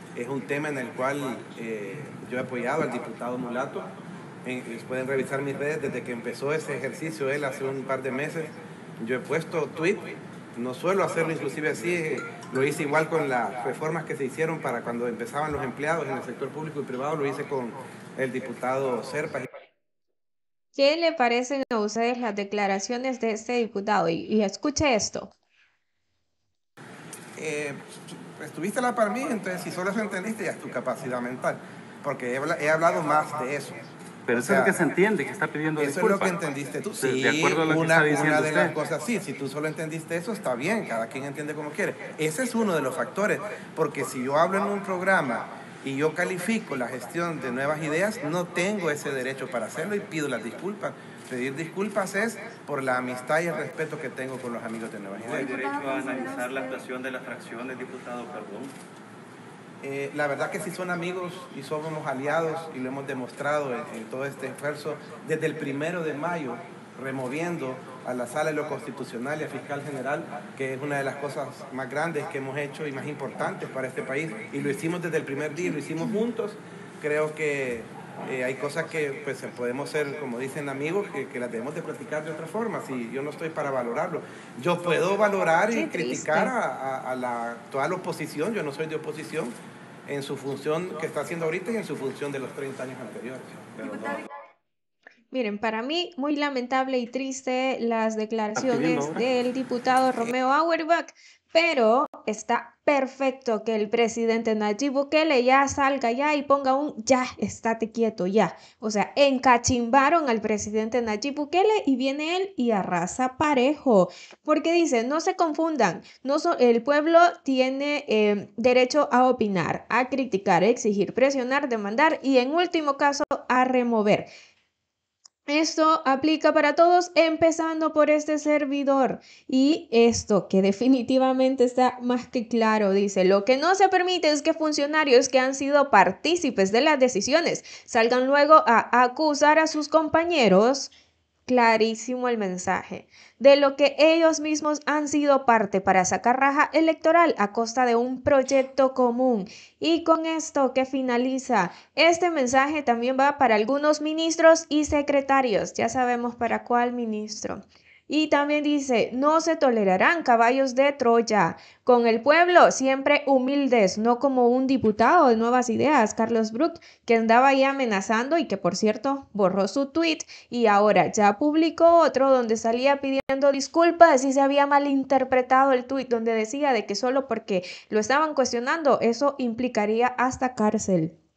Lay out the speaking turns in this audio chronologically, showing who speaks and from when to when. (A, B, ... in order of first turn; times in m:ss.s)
0:00.2-0:03.9 A
0:04.4-0:19.5 A
0:20.8-0:25.3 B
0:27.4-0:33.8 A
0:34.3-0:36.4 C
0:34.3-0:34.8 A
0:35.8-0:55.5 A
0:37.0-0:38.7 C
0:55.2-0:58.7 D
0:59.8-1:29.5 A
1:25.7-1:26.5 B
1:30.1-1:33.7 A
1:33.8-1:34.2 D
1:33.8-1:34.2 B
1:35.3-2:04.3 B
1:38.6-1:39.2 C
2:05.5-2:20.9 B
2:21.5-3:01.1 B